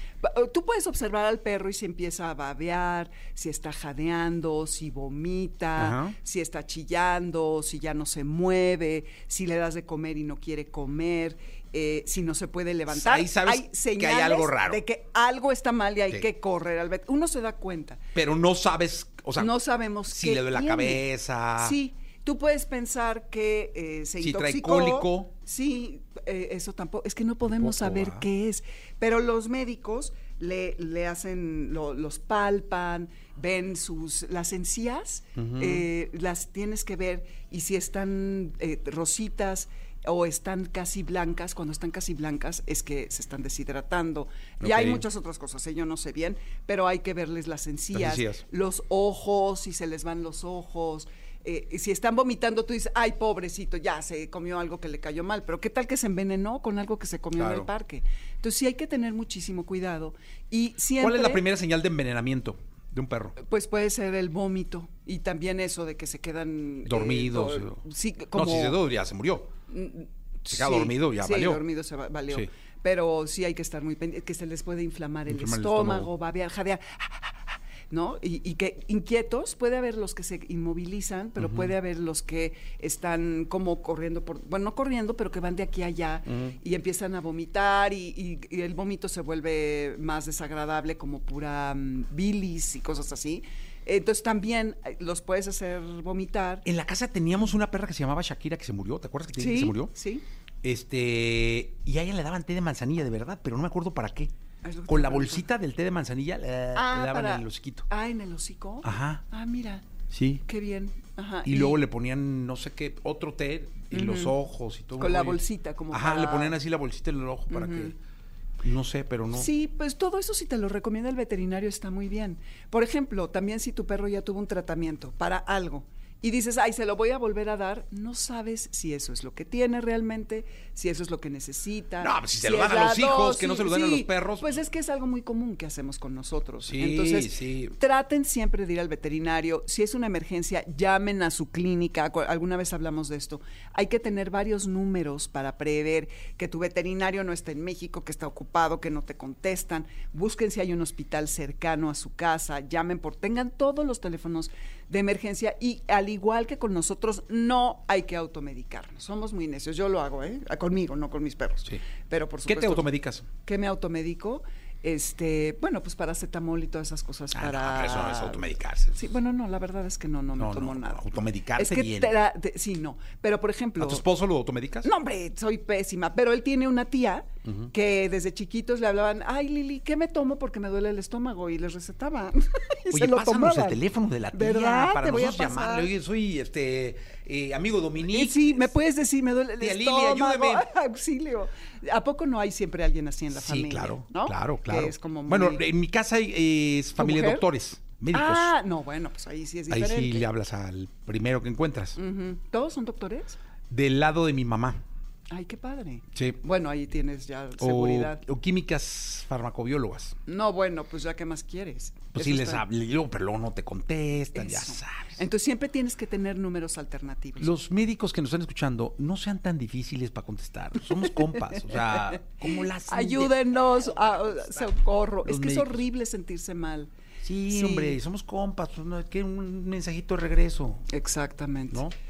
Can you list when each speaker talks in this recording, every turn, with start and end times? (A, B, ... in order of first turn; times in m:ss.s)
0:00.2-0:18.0 A
0:05.8-0:06.2 B
0:12.9-0:14.8 B
0:18.1-0:19.5 B
0:19.4-0:21.0 A
0:20.1-0:21.8 B
0:21.6-1:01.4 A
0:24.2-0:25.3 B
0:27.5-0:28.2 B
0:35.4-0:35.8 B
0:44.6-0:45.0 B
0:47.9-0:48.4 B
0:57.3-0:57.7 B
1:01.0-1:03.4 B
1:03.4-1:08.8 A
1:06.8-1:07.8 B
1:08.3-1:09.5 B
1:09.7-1:36.6 A
1:10.5-1:11.6 B
1:15.3-1:16.1 B
1:21.4-1:21.7 B
1:26.3-1:26.6 B
1:36.6-1:39.9 B
1:39.4-1:40.2 A
1:40.6-1:44.3 B
1:44.6-1:45.4 A
1:44.9-1:47.9 B
1:46.7-1:49.8 A
1:48.8-1:49.2 B
1:50.1-1:50.4 B
1:50.4-1:51.8 A
1:51.4-1:55.4 B
1:53.9-1:54.4 A
1:55.0-1:56.6 A
1:55.9-1:57.9 B
1:57.5-1:57.9 A
1:58.6-1:59.5 B
1:59.3-2:42.9 A
2:12.0-2:14.6 B
2:16.6-2:17.8 B
2:42.5-2:43.3 B
2:43.4-2:54.0 A
2:47.3-2:49.0 B
2:50.4-2:52.1 B
2:53.8-2:54.9 B
2:54.8-3:03.8 A
2:57.4-2:57.7 B
3:02.9-3:08.7 B
3:04.3-3:05.9 A
3:08.0-3:15.6 A
3:09.6-3:10.7 B
3:13.3-3:18.5 B
3:17.0-3:17.4 A
3:18.1-3:20.3 A
3:19.7-3:22.0 B
3:22.0-3:23.4 A
3:23.7-3:24.8 B
3:25.3-3:28.2 A
3:27.6-3:30.2 B
3:30.2-3:32.6 A
3:32.1-3:35.2 B
3:34.3-3:37.5 A
3:37.4-3:44.5 B
3:41.1-3:46.9 A
3:45.2-3:45.8 B
3:47.2-3:50.9 B
3:47.5-3:48.0 A
3:50.9-3:51.8 A